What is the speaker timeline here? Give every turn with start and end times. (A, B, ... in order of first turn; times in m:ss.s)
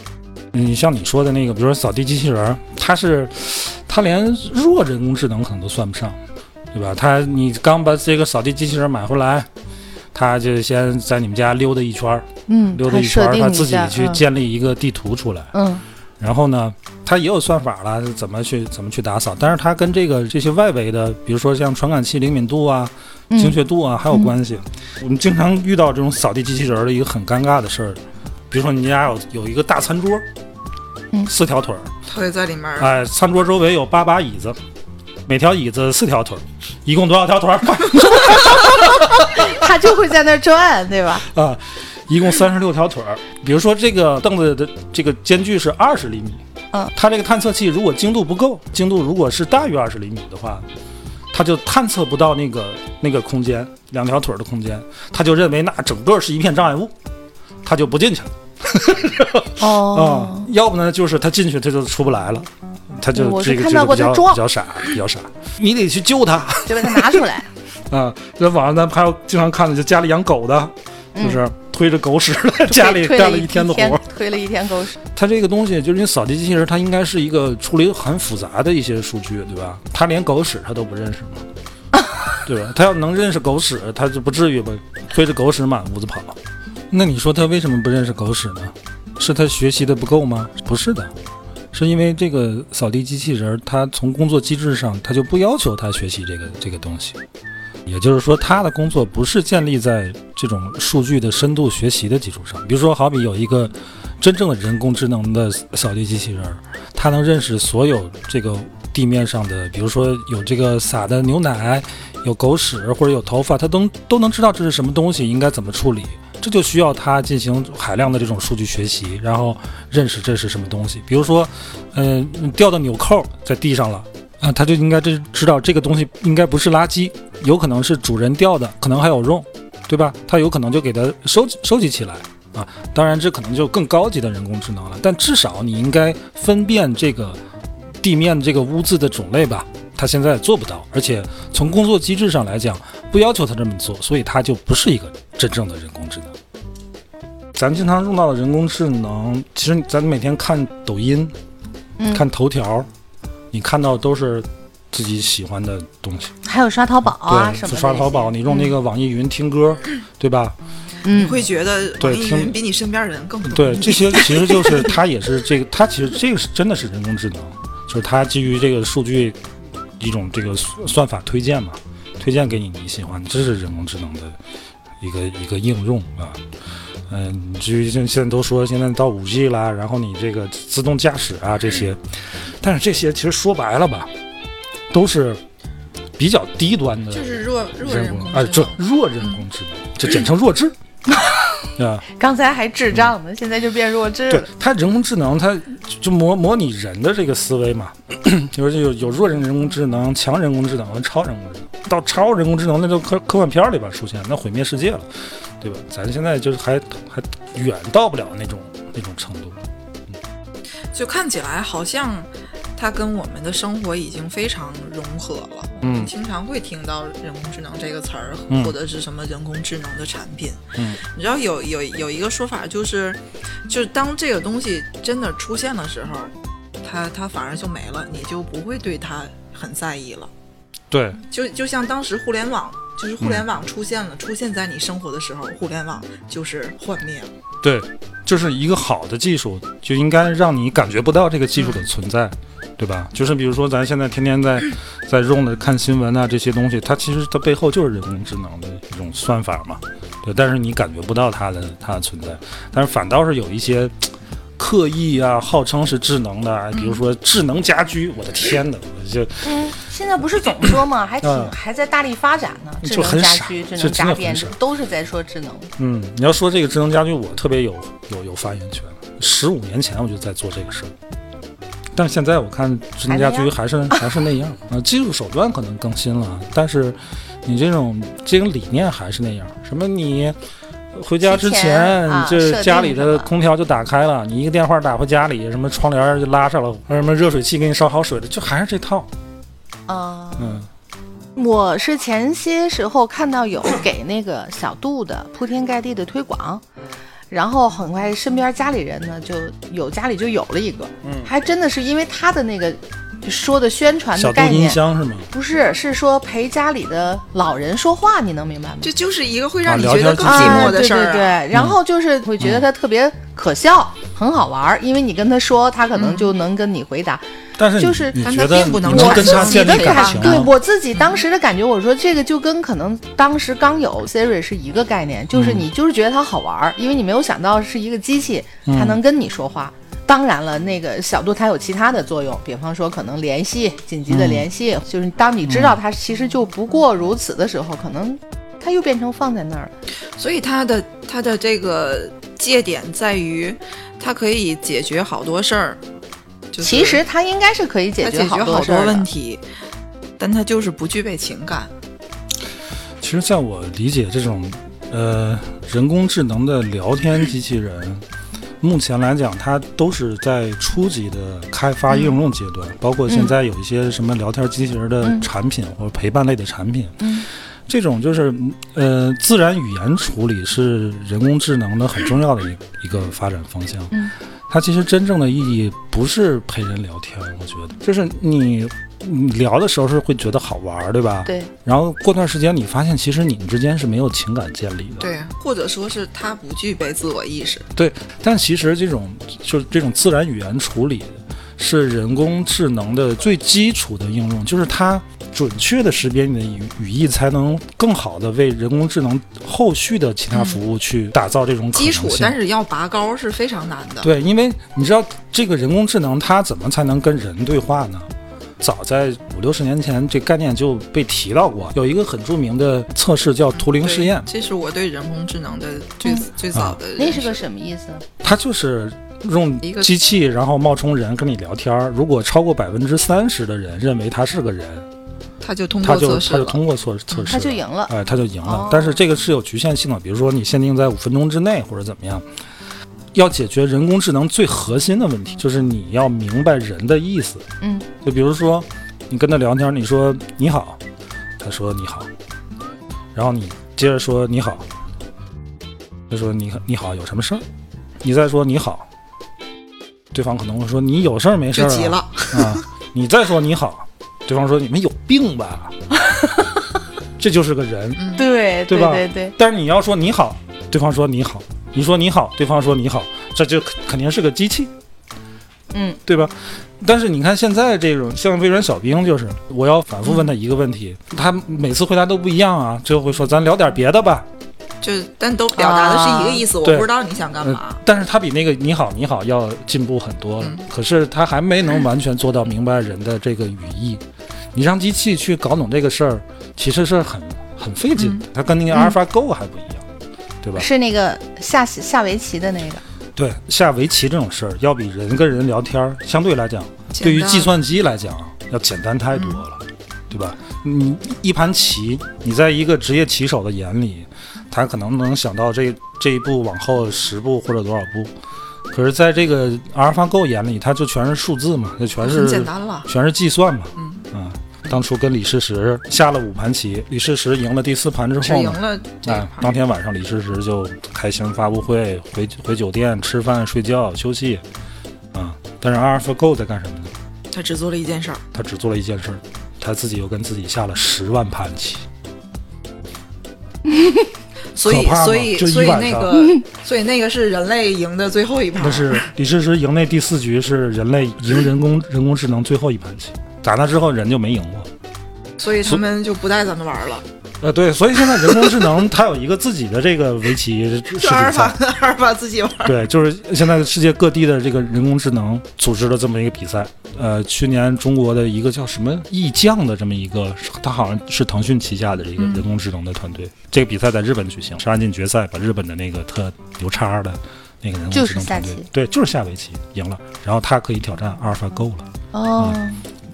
0:00.5-0:06.2 A
0:06.7-0:09.5 A
0:10.1-0:15.5 A
0:12.5-0:14.2 B
0:15.5-0:15.8 B
0:16.2-0:30.3 A
0:23.3-0:23.6 B
0:31.3-0:31.9 A
0:32.1-0:32.9 C
0:32.8-0:34.6 A
0:35.3-0:39.6 A
0:39.2-0:41.3 B
0:41.2-0:46.4 A
0:46.9-0:50.6 A
0:51.3-0:56.9 A
0:57.6-1:07.3 A
0:59.6-1:00.5 B
1:03.1-1:04.4 B
1:06.7-1:07.5 B
1:07.9-1:14.0 A
1:11.2-1:11.4 B
1:12.7-1:15.0 B
1:15.1-1:21.5 A
1:22.4-1:26.4 A
1:26.9-1:31.1 A
1:31.7-1:37.2 A
1:37.8-2:17.4 A
2:18.0-2:26.3 A
2:27.6-2:31.3 A
2:32.0-2:32.2 B
2:32.1-2:32.9 A
2:33.5-2:36.3 A
2:36.4-2:38.7 B
2:37.1-2:40.6 A
2:41.0-2:41.4 B
2:41.1-2:45.0 C
2:42.0-2:42.6 A
2:43.5-2:49.4 A
2:50.0-2:54.4 A
2:55.0-2:56.4 A
2:57.1-3:04.1 A
3:04.9-3:05.4 A
3:06.2-3:10.8 A
3:07.1-3:09.4 C
3:11.1-3:11.5 B
3:11.8-3:12.0 A
3:12.1-3:14.5 B
3:14.3-3:25.1 A
3:25.6-3:29.6 A
3:30.9-3:50.3 C
3:35.8-3:36.1 A
3:38.5-3:38.8 A
3:50.9-3:51.2 A
3:51.3-3:57.3 C
3:57.6-4:19.7 A
4:19.4-4:25.7 B
4:21.2-4:21.5 A
4:22.8-4:24.6 A
4:25.8-4:30.9 A
4:31.9-4:40.4 A
4:33.1-4:34.1 B
4:40.9-4:49.1 A
4:41.2-4:43.3 B
4:49.9-4:50.6 B
4:50.4-4:50.7 A
4:51.4-4:56.6 B
4:57.3-5:08.9 B
5:01.0-5:01.3 A
5:04.2-5:05.3 A
5:08.8-5:11.4 C
5:09.6-5:10.8 A
5:10.2-5:17.2 B
5:15.9-5:16.3 C
5:17.6-5:20.5 A
5:17.8-5:18.2 B
5:18.2-5:21.2 C
5:18.8-5:39.7 B
5:25.3-5:25.7 A
5:28.7-5:29.0 A
5:34.1-5:34.5 A
5:35.4-5:35.8 A
5:40.2-5:45.8 C
5:46.5-5:47.0 C
5:46.6-5:49.1 B
5:48.0-5:49.4 C
5:50.2-5:51.7 C
5:53.0-5:58.0 A
5:58.6-6:14.0 A
6:03.1-6:03.3 B
6:05.0-6:05.3 B
6:07.0-6:07.3 B
6:14.5-6:25.1 A
6:21.3-6:21.5 B
6:25.0-6:27.7 C
6:27.8-6:42.4 A
6:41.7-6:44.1 C
6:44.0-6:54.3 A
6:53.6-6:57.4 C
6:56.5-6:56.8 A
6:57.0-6:58.0 B
6:58.2-7:04.9 A
6:59.6-6:59.9 C
7:05.4-7:06.6 C
7:05.8-7:12.3 A
7:07.1-7:07.4 C
7:07.3-7:09.0 B
7:13.1-7:17.4 A
7:17.6-7:17.9 B
7:18.0-7:20.8 A
7:21.4-7:22.1 A
7:23.1-7:24.7 A
7:26.1-7:27.4 A
7:28.0-7:28.9 A
7:30.1-7:35.8 A
7:31.5-7:32.6 C
7:36.1-7:36.4 B
7:37.2-7:38.0 A
7:38.0-7:38.2 C
7:38.2-7:39.4 B
7:38.7-7:44.7 A
7:45.7-7:46.0 B
7:46.1-7:54.3 A
7:54.8-7:57.8 C
7:55.6-7:56.4 B
7:56.6-7:56.9 A
7:57.4-8:04.0 A
8:00.4-8:00.6 C
8:04.5-8:09.9 A
8:08.0-8:08.3 C
8:10.4-8:10.7 A
8:10.6-8:12.8 B
8:13.2-8:28.1 A
8:16.9-8:17.5 C
8:19.1-8:19.4 C
8:28.7-8:44.4 A
8:32.0-8:32.9 C
8:33.8-8:34.0 C
8:38.2-8:39.5 C
8:45.1-8:46.9 A
8:47.3-8:48.2 C
8:48.3-8:51.9 A
8:53.7-8:54.1 B
8:54.6-8:59.1 C
8:54.6-8:56.2 A
8:58.6-9:04.7 A
9:05.4-9:07.0 C
9:07.4-9:11.6 A
9:08.2-9:08.5 C
9:10.9-9:12.8 C
9:12.6-9:32.6 A
9:22.2-9:22.4 C
9:27.9-9:28.7 B
9:32.1-9:32.8 B